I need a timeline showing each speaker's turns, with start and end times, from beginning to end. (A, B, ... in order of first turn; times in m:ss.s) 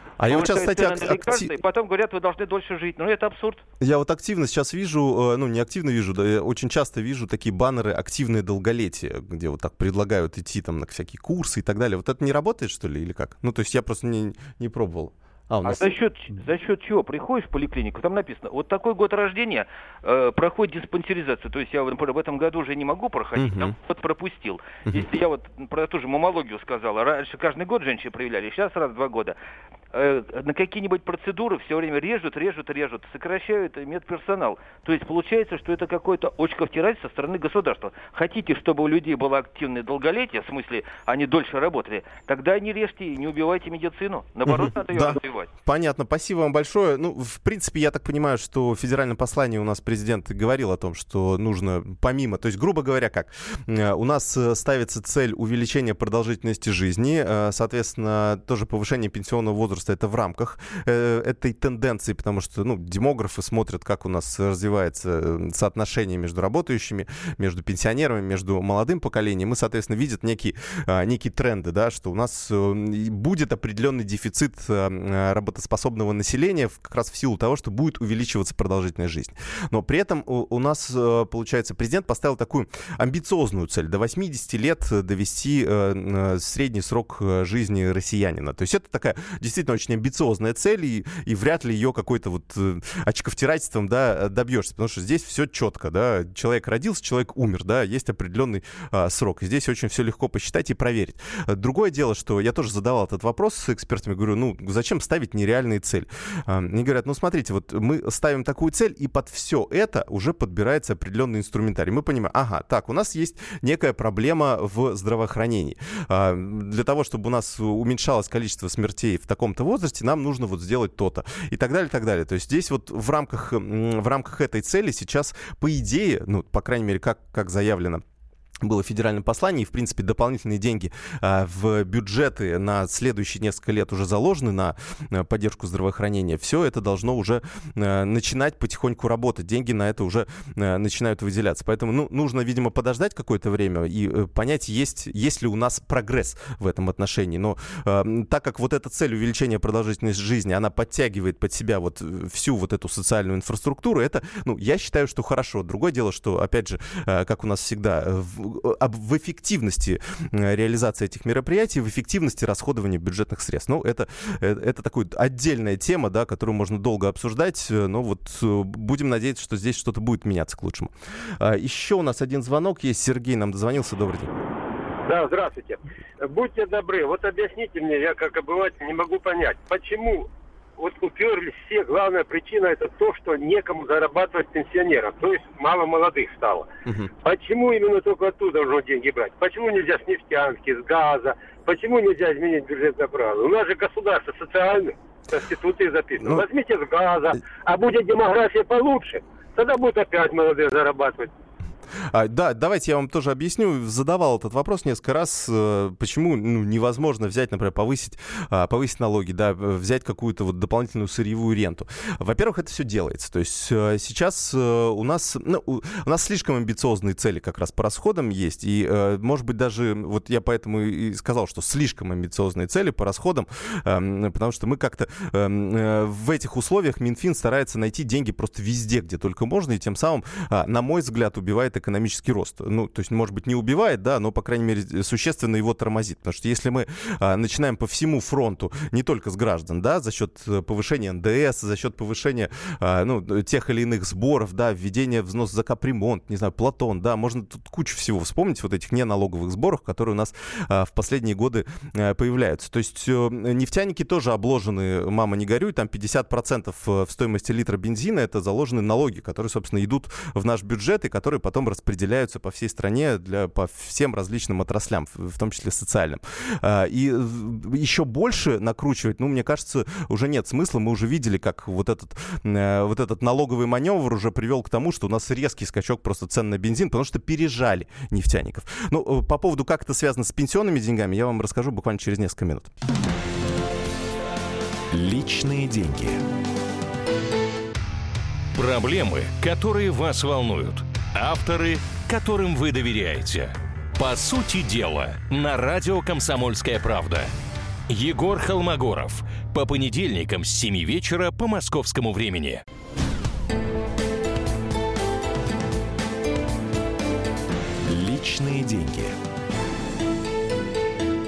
0:00.2-0:01.5 A
0:00.2-0:03.6 B
0:03.8-0:15.9 A
0:15.6-0:29.4 B
0:23.4-0:23.7 A
0:29.9-0:45.5 B
0:44.4-2:08.0 A
2:08.6-2:54.4 A
2:55.0-3:06.7 C
3:07.2-3:21.3 C
3:22.1-4:42.7 A
4:44.9-4:46.2 D
4:48.5-4:57.3 E
4:57.9-5:02.6 E
5:07.8-5:09.1 D